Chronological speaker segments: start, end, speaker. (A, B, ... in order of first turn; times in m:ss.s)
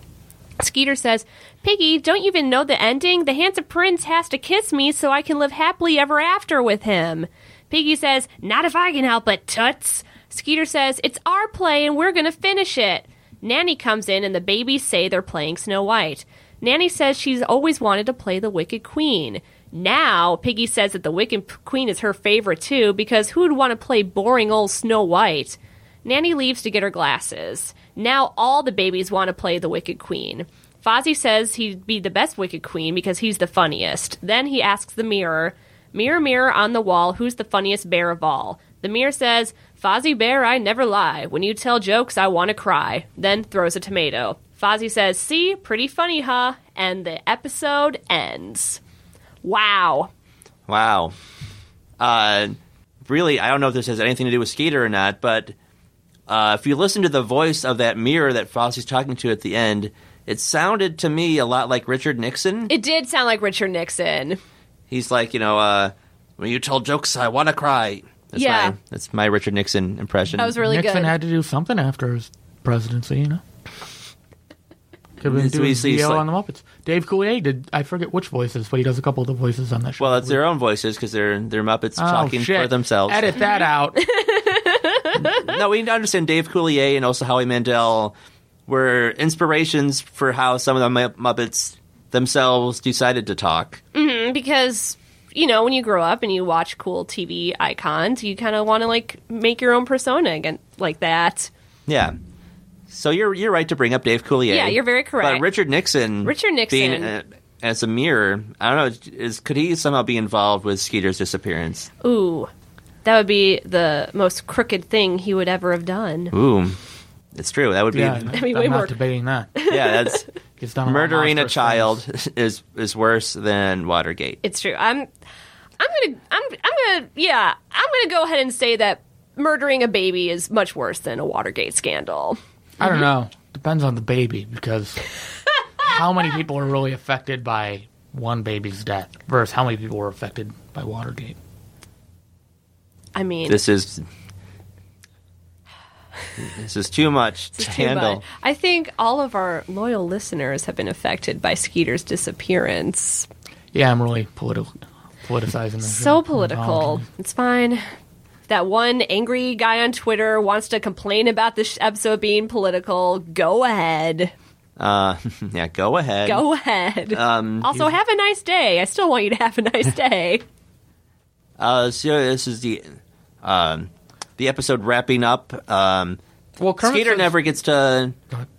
0:00.6-0:48.8 A
0:49.4-0:50.1 A
0:50.7-0:51.1 B
0:52.0-0:55.5 B
0:56.3-1:02.7 B
1:02.7-1:04.4 A
1:04.9-1:10.6 B
1:08.4-1:08.7 A
1:10.4-1:11.1 A
1:10.6-1:13.4 C
1:15.2-1:20.4 C
1:15.2-1:16.2 B
1:20.0-1:23.3 B
1:22.0-1:24.0 C
1:23.4-1:25.5 A
1:25.4-1:28.1 B
1:28.7-1:33.8 B
1:33.9-1:41.5 A
1:41.9-1:42.2 B
1:42.9-1:51.9 B
1:44.5-1:45.5 A
1:46.2-1:47.1 A
1:52.0-1:52.5 A
1:53.0-1:56.3 A
1:56.3-1:56.8 B
1:57.3-1:58.3 B
1:57.9-1:59.5 C
1:58.2-1:59.0 A
1:59.5-2:00.2 A
1:59.7-2:00.3 B
2:00.6-2:02.0 C
2:00.8-2:04.4 B
2:04.4-2:05.1 A
2:05.8-2:12.4 A
2:12.8-2:15.0 C
2:15.8-2:21.4 C
2:23.1-2:23.6 A
2:23.5-2:24.0 B
2:26.4-2:28.2 B
2:27.5-2:33.3 A
2:33.7-2:37.1 C
2:35.8-2:37.9 A
2:38.5-2:44.3 A
2:44.8-2:46.4 B
2:46.2-2:50.4 A
2:47.1-2:47.9 B
2:51.6-2:56.2 B
2:56.6-2:57.3 C
2:56.8-2:58.2 B